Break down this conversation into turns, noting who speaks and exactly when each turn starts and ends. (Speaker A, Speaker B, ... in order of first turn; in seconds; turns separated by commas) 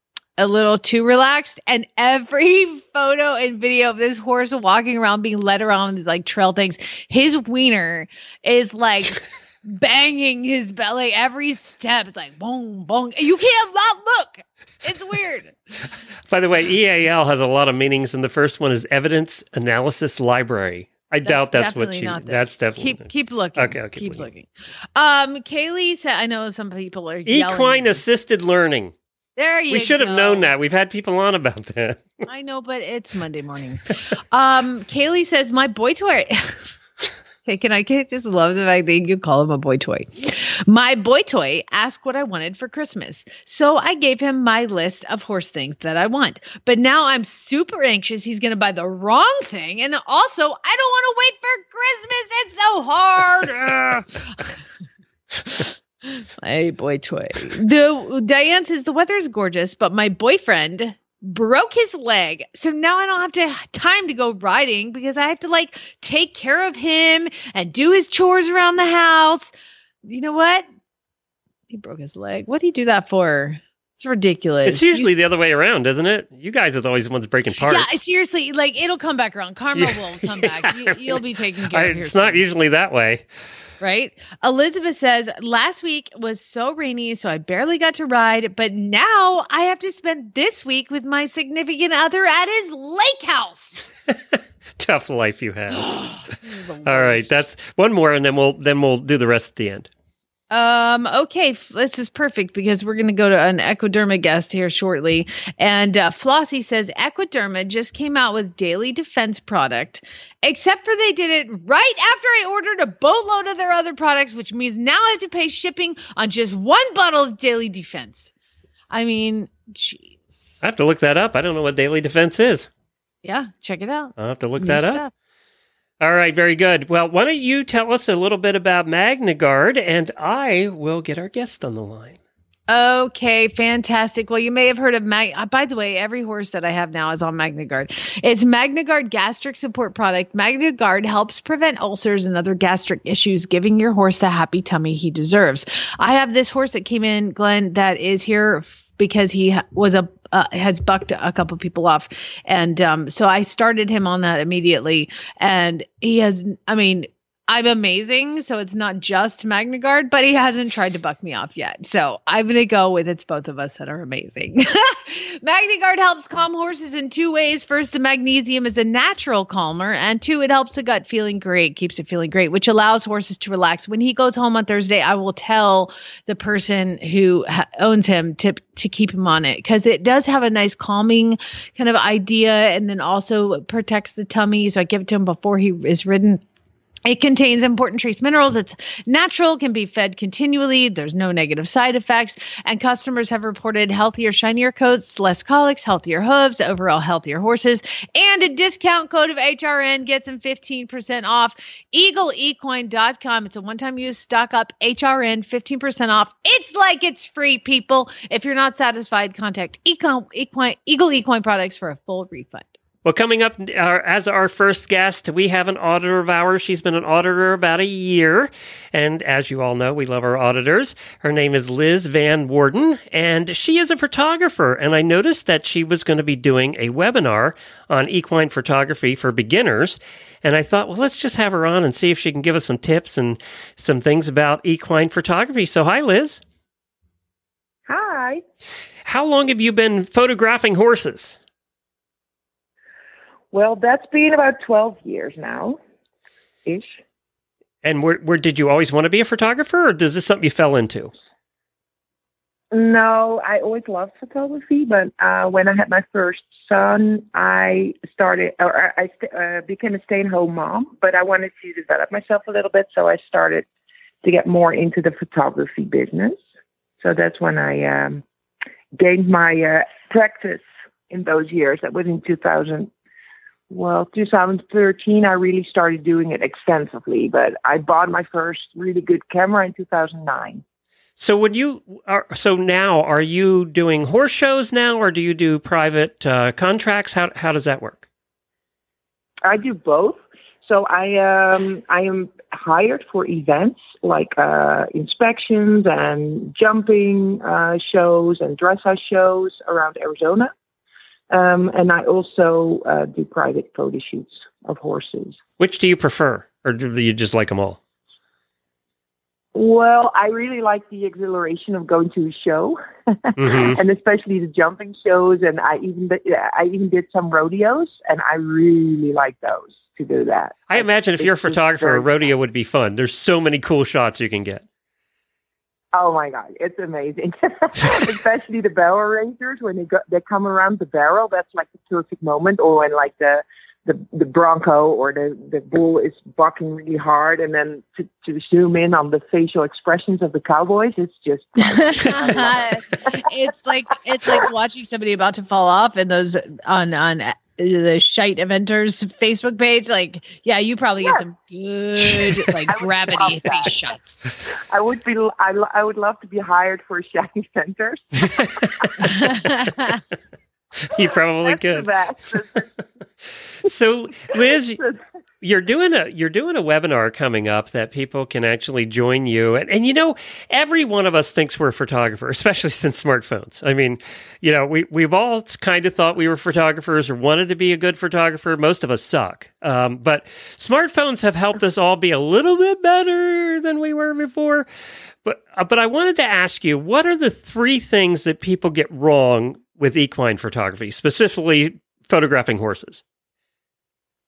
Speaker A: 0.4-15.5, Speaker B: 16.3-24.3, Speaker A: 21.2-28.0, Speaker B: 27.3-28.9, Speaker A: 29.4-30.5, Speaker B: 29.7-32.0, Speaker A: 32.2-36.6, Speaker A: 37.4-54.5, Speaker B: 53.7-54.0, Speaker A: 55.4-69.5, Speaker A: 70.0-70.7, Speaker A: 71.7-75.1, Speaker B: 74.7-77.9, Speaker A: 77.7-82.4, Speaker B: 79.8-83.2, Speaker A: 83.8-93.9, Speaker B: 94.8-96.1, Speaker A: 95.7-97.3, Speaker B: 96.8-99.9, Speaker A: 100.5-118.3, Speaker A: 118.9-120.6, Speaker B: 120.6-122.7, Speaker A: 123.2-125.1, Speaker B: 124.2-125.0, Speaker B: 126.0-132.2, Speaker A: 132.7-186.4, Speaker A: 187.1-212.7, Speaker B: 213.0-236.4, Speaker C: 237.9-238.4, Speaker B: 239.0-241.4, Speaker C: 243.5-245.8, Speaker C: 246.7-247.0, Speaker B: 247.8-251.1, Speaker C: 252.7-263.6, Speaker C: 264.2-266.4, Speaker C: 267.0-268.2, Speaker C: 268.9-272.9, Speaker C: 273.7-280.6, Speaker B: 281.2-288.0, Speaker C: 289.4-300.5, Speaker C: 301.3-305.4, Speaker B: 305.6-307.8, Speaker C: 309.5-322.3, Speaker B: 313.4-313.8, Speaker B: 320.7-324.6, Speaker C: 325.9-343.2, Speaker A: 341.8-354.3, Speaker C: 352.7-353.7, Speaker C: 354.7-359.1, Speaker B: 358.4-358.9, Speaker A: 359.0-360.0, Speaker B: 360.9-361.9, Speaker C: 360.9-362.7, Speaker B: 363.6-364.8, Speaker C: 364.3-365.0, Speaker B: 365.4-384.6, Speaker B: 385.2-393.0